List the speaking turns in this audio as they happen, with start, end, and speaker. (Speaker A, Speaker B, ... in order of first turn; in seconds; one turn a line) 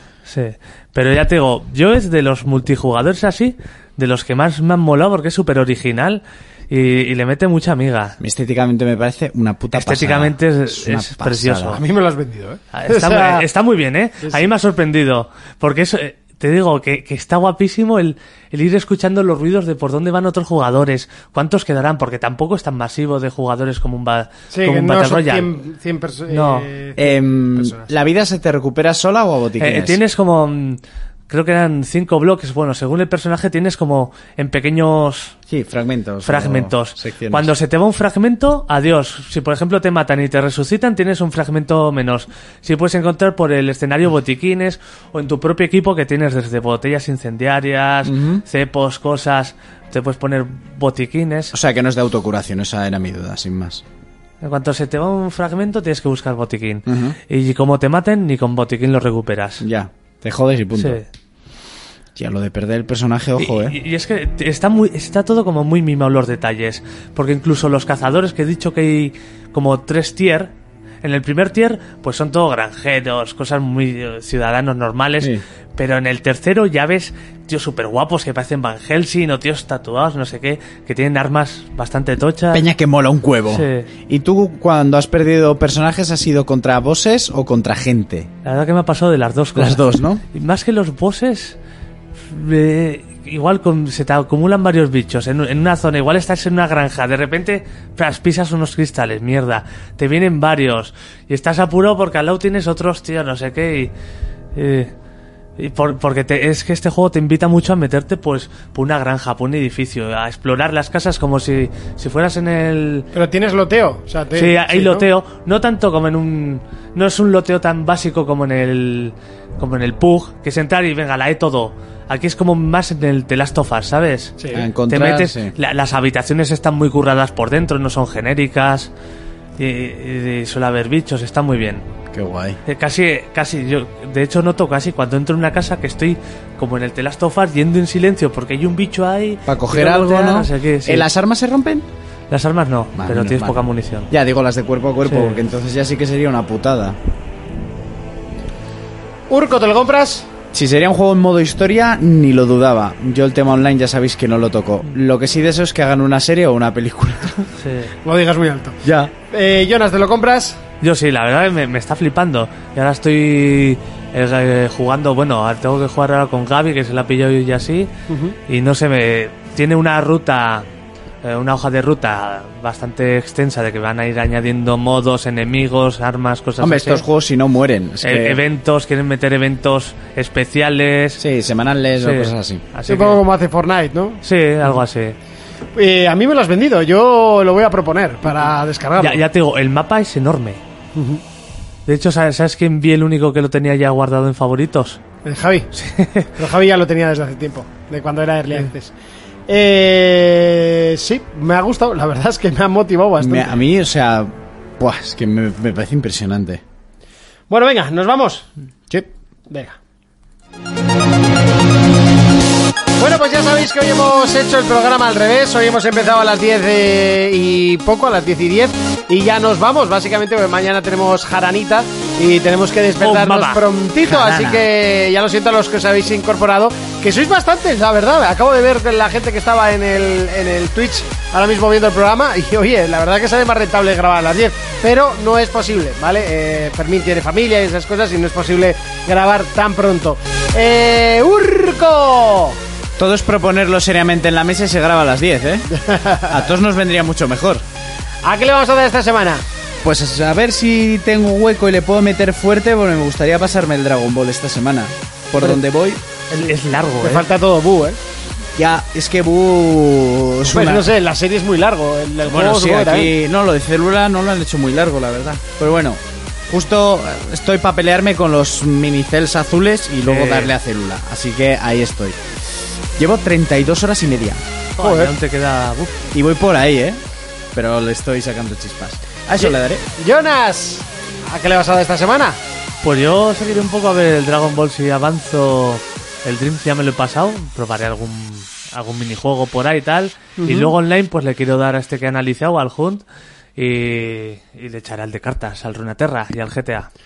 Speaker A: 0.2-8.2
Speaker B: 8.2-11.8
Speaker A: 9.7-11.8
Speaker C: 11.8-13.4
Speaker A: 12.7-25.5
Speaker C: 24.5-27.9
Speaker A: 26.3-26.7
Speaker B: 27.0-30.0
Speaker A: 29.6-35.4
Speaker B: 35.5-37.5
Speaker A: 36.2-51.5
Speaker B: 48.0-48.4
Speaker B: 51.5-53.8
Speaker A: 54.4-59.6
Speaker B: 56.9-57.2
Speaker B: 59.6-61.0
Speaker A: 60.8-61.0
Speaker B: 62.1-63.8
Speaker A: 63.4-70.5
Speaker A: 71.0-82.6
Speaker B: 82.5-88.3
Speaker A: 83.5-83.9
Speaker A: 88.4-91.6
Speaker B: 89.5-90.2
Speaker A: 92.3-103.9
Speaker A: 104.5-104.9
Speaker A: 105.6-113.1
Speaker C: 113.1-115.0
Speaker A: 114.3-124.3
Speaker C: 124.4-124.7
Speaker B: 124.5-125.5
Speaker A: 124.9-128.9
Speaker A: 129.6-131.8
Speaker B: 132.1-132.6
Speaker A: 132.7-141.1
Speaker B: 139.4-141.8
Speaker A: 142.3-144.1
Speaker B: 142.9-147.0
Speaker A: 145.0-145.4
Speaker C: 149.3-150.3
Speaker B: 150.5-157.3
Speaker A: 157.6-157.9
Speaker C: 158.0-160.6
Speaker B: 158.8-159.1
Speaker A: 160.8-167.9
Speaker C: 168.1-168.4
Speaker A: 168.5-170.7
Speaker A: 171.2-177.0
Speaker B: 176.6-178.4
Speaker A: 178.0-181.2
Speaker B: 181.2-182.6
Speaker A: 182.0-183.2
Speaker C: 182.9-184.2
Speaker A: 184.2-185.2
Speaker C: 185.8-189.2
Speaker A: 189.0-190.6
Speaker C: 190.9-191.2
Speaker A: 191.8-195.0
Speaker C: 195.2-195.7
Speaker A: 195.8-196.3
Speaker C: 196.3-198.9
Speaker C: 199.5-203.5
Speaker B: 203.2-206.6
Speaker C: 207.5-208.5
Speaker C: 209.5-209.8
Speaker C: 213.0-242.6
Speaker A: 223.0-223.6
Speaker B: 224.0-224.7
Speaker B: 243.0-245.7
Speaker C: 245.8-246.3
Speaker B: 246.3-247.6
Speaker C: 248.2-249.4
Speaker B: 249.8-256.0
Speaker A: 256.3-257.3
Speaker C: 257.0-258.0
Speaker B: 258.6-260.9
Speaker C: 260.4-263.1
Speaker B: 262.2-272.2
Speaker A: 270.0-270.5
Speaker B: 272.9-274.4
Speaker C: 274.8-275.1
Speaker A: 274.8-276.0
Speaker B: 276.1-277.0
Speaker B: 277.5-279.8
Speaker C: 279.4-282.4
Speaker A: 282.8-293.0
Speaker C: 290.4-290.7
Speaker A: 293.6-296.9